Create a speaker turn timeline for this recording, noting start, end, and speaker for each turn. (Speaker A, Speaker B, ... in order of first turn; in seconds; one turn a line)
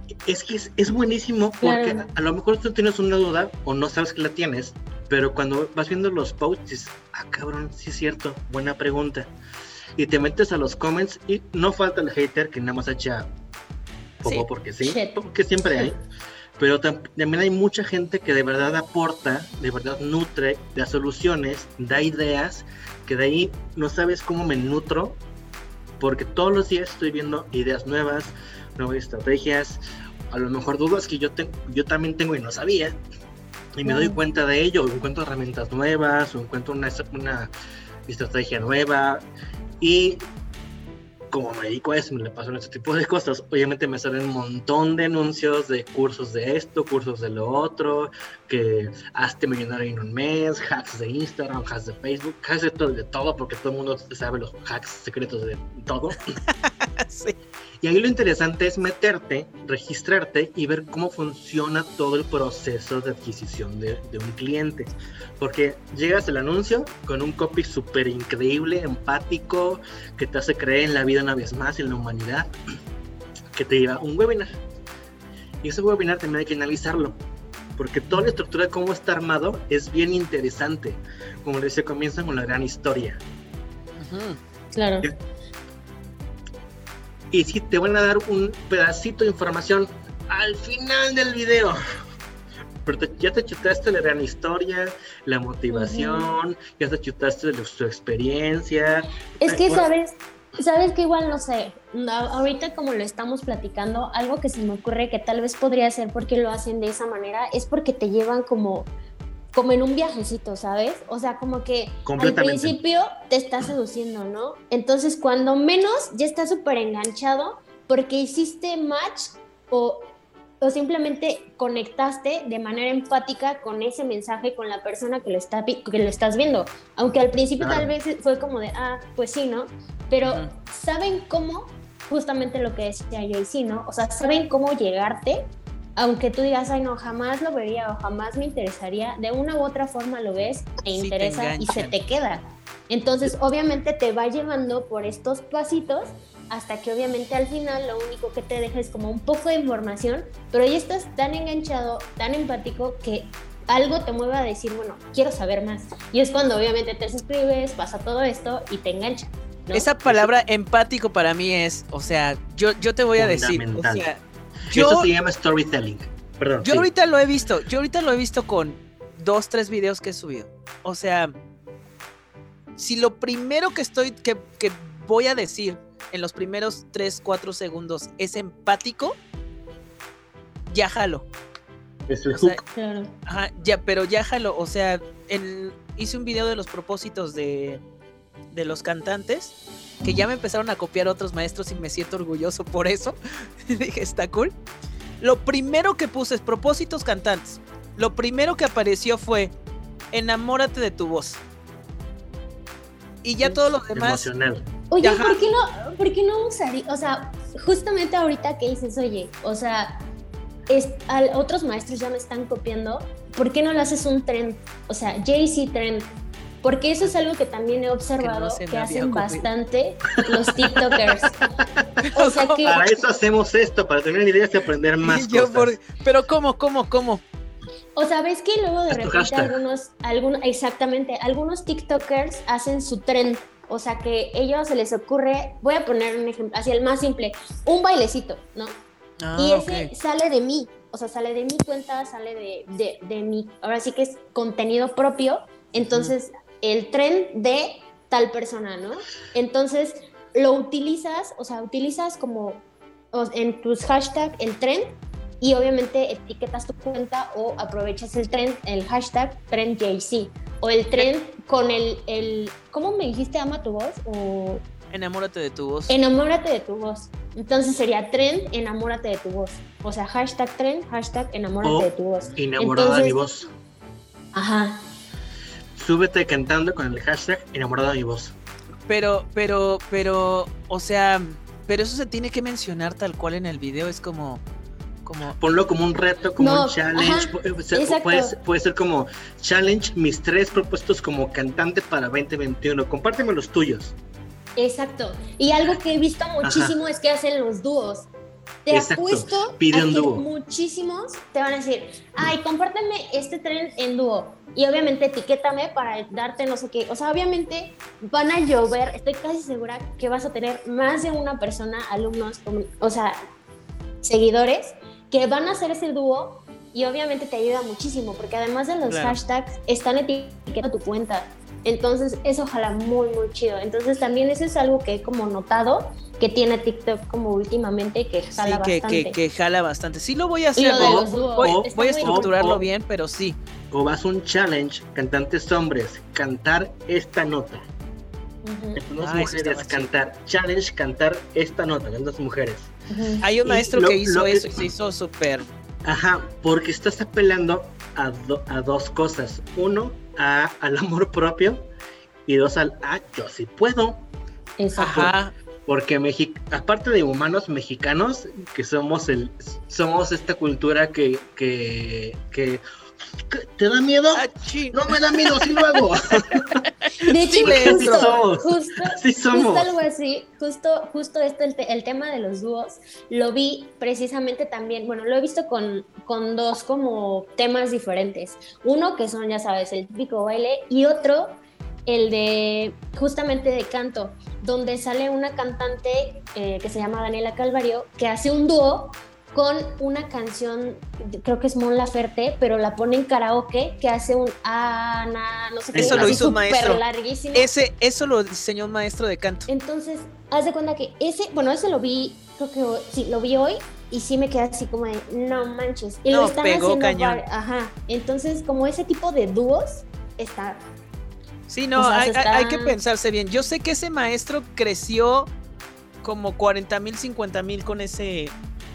Speaker A: 0.2-9.3
Speaker B: 1.6-2.1
Speaker A: 10.0-13.3
Speaker A: 14.2-15.9
Speaker B: 14.2-15.9
Speaker A: 16.6-25.2
Speaker A: 26.0-33.0
Speaker A: 33.7-37.5
Speaker B: 33.8-34.2
Speaker A: 38.1-39.2
Speaker A: 39.8-40.2
Speaker A: 41.3-56.2
Speaker C: 56.5-57.4
Speaker A: 57.8-72.5
Speaker A: 73.5-74.5
Speaker A: 75.6-77.2
Speaker A: 77.8-83.2
Speaker C: 84.0-84.4
Speaker B: 84.7-85.1
Speaker A: 87.3-91.8
Speaker A: 92.8-99.9
Speaker B: 95.7-96.3
Speaker B: 99.4-108.9
Speaker B: 109.5-159.9
Speaker A: 112.0-112.8
Speaker A: 127.6-127.9
Speaker C: 130.2-130.5
Speaker C: 140.9-141.9
Speaker C: 159.7-165.1
Speaker A: 163.2-164.1
Speaker A: 164.7-166.9
Speaker C: 166.6-171.3
Speaker C: 172.8-179.2
Speaker C: 180.7-181.3
Speaker A: 182.1-182.6
Speaker B: 182.7-183.1
Speaker C: 183.2-187.8
Speaker C: 188.5-194.5
Speaker C: 195.2-199.5
Speaker C: 200.1-201.4
Speaker C: 203.2-204.3
Speaker A: 203.9-204.6
Speaker B: 204.9-209.9
Speaker C: 205.0-205.4
Speaker B: 210.7-216.1
Speaker B: 216.6-221.5
Speaker C: 218.2-219.5
Speaker A: 220.3-221.1
Speaker C: 222.0-222.9
Speaker B: 222.1-222.8
Speaker A: 222.6-225.8
Speaker C: 225.0-227.2
Speaker B: 227.9-238.8
Speaker A: 228.9-229.6
Speaker C: 239.2-239.9
Speaker B: 239.3-264.6
Speaker C: 245.8-246.1
Speaker C: 264.9-266.0
Speaker B: 265.9-273.2
Speaker A: 271.6-273.5
Speaker B: 274.3-274.9
Speaker A: 275.8-278.3
Speaker C: 278.9-284.4
Speaker C: 285.0-285.4
Speaker A: 285.4-293.9
Speaker B: 286.4-288.4
Speaker B: 294.6-298.1
Speaker A: 296.4-296.8
Speaker B: 298.6-313.2
Speaker A: 298.7-300.2
Speaker B: 314.0-329.2
Speaker C: 318.9-319.2
Speaker C: 328.3-333.4
Speaker B: 330.6-332.4
Speaker A: 330.7-332.7
Speaker A: 333.7-337.7
Speaker B: 338.4-338.8
Speaker A: 338.8-342.7
Speaker C: 339.0-339.9
Speaker B: 342.9-343.2
Speaker C: 343.2-345.5
Speaker A: 343.4-344.7
Speaker A: 345.8-351.7
Speaker A: 352.2-354.0
Speaker B: 354.6-355.1
Speaker C: 354.8-355.3
Speaker A: 354.8-355.1
Speaker A: 355.7-362.6
Speaker A: 363.3-366.6
Speaker C: 364.1-365.7
Speaker C: 366.9-368.2
Speaker B: 367.0-397.5
Speaker A: 367.4-369.7
Speaker A: 395.7-396.3
Speaker C: 395.7-396.8
Speaker C: 397.3-399.5
Speaker B: 399.5-410.6
Speaker C: 406.1-407.2
Speaker C: 411.5-415.3
Speaker B: 411.8-412.8
Speaker C: 416.0-418.3